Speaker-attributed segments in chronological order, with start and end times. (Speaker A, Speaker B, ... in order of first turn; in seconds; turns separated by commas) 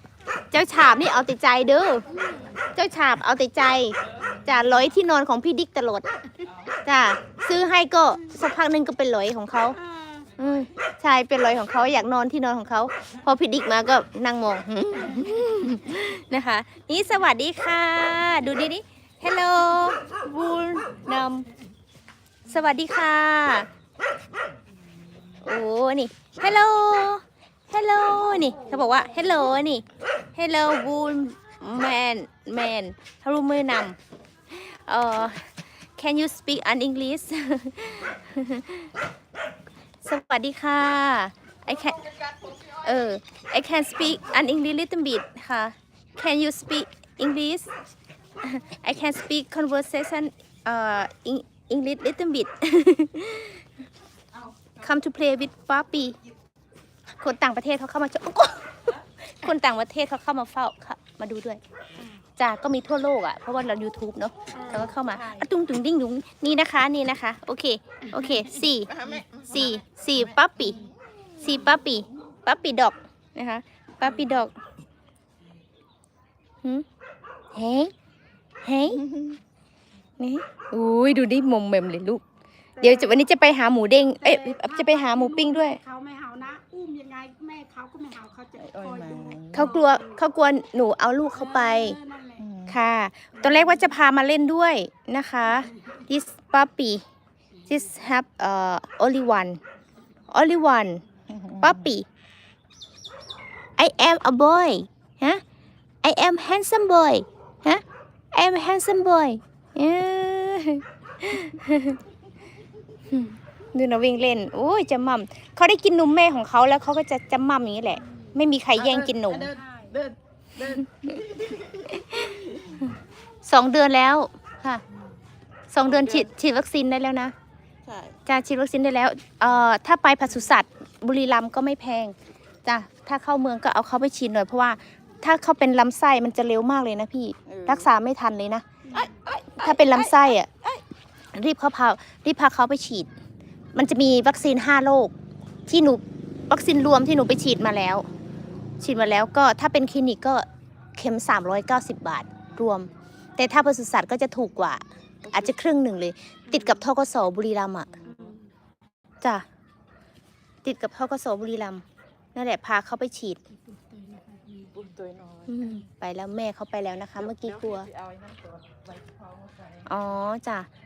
Speaker A: 0.5-2.0, Speaker B: 2.1-2.6, Speaker A: 2.7-6.1, Speaker A: 6.8-9.8, Speaker B: 9.8-10.3, Speaker A: 10.4-21.4, Speaker A: 22.5-23.7, Speaker A: 25.4-29.8, Speaker A: 30.4-34.0, Speaker A: 34.5-38.9, Speaker A: 40.0-42.0, Speaker A: 42.8-47.7, Speaker A: 48.4-53.6, Speaker A: 54.8-56.2, Speaker A: 57.1-61.6, Speaker B: 62.0-62.2, Speaker A: 62.4-68.9, Speaker B: 64.5-65.5, Speaker B: 68.1-69.4, Speaker C: 68.9-69.7, Speaker A: 69.5-70.8, Speaker B: 70.6-70.9, Speaker A: 71.4-74.5, Speaker A: 77.5-77.9, Speaker A: 78.6-79.1, Speaker C: 79.0-79.4, Speaker A: 80.2-82.2, Speaker B: 82.8-83.2, Speaker A: 82.8-85.8, Speaker B: 84.2-90.2, Speaker C: 88.6-89.7, Speaker A: 89.5-92.0, Speaker B: 91.3-92.5, Speaker C: 92.4-92.8, Speaker A: 92.7-97.0, Speaker B: 93.4-93.9, Speaker A: 97.7-99.6, Speaker A: 100.3-101.0, Speaker C: 101.3-101.8, Speaker A: 101.6-102.0, Speaker A: 103.8-105.4, Speaker A: 106.0-112.0, Speaker A: 113.1-119.5, Speaker C: 118.8-119.4, Speaker B: 119.5-120.0, Speaker C: 119.9-121.9, Speaker A: 121.9-122.9, Speaker A: 123.5-124.8, Speaker A: 125.7-127.3, Speaker C: 127.8-128.2, Speaker A: 128.2-138.6, Speaker C: 137.5-137.8, Speaker B: 138.8-139.2, Speaker C: 138.9-140.0, Speaker A: 139.6-140.8, Speaker A: 141.3-143.1, Speaker A: 143.7-145.1, Speaker A: 145.7-148.1, Speaker A: 148.8-157.9, Speaker B: 156.5-156.9, Speaker B: 158.0-158.5, Speaker A: 160.6-161.8, Speaker A: 162.3-163.4, Speaker B: 163.6-164.9, Speaker C: 164.8-165.5, Speaker A: 165.5-167.9, Speaker C: 168.1-168.4, Speaker A: 169.8-170.7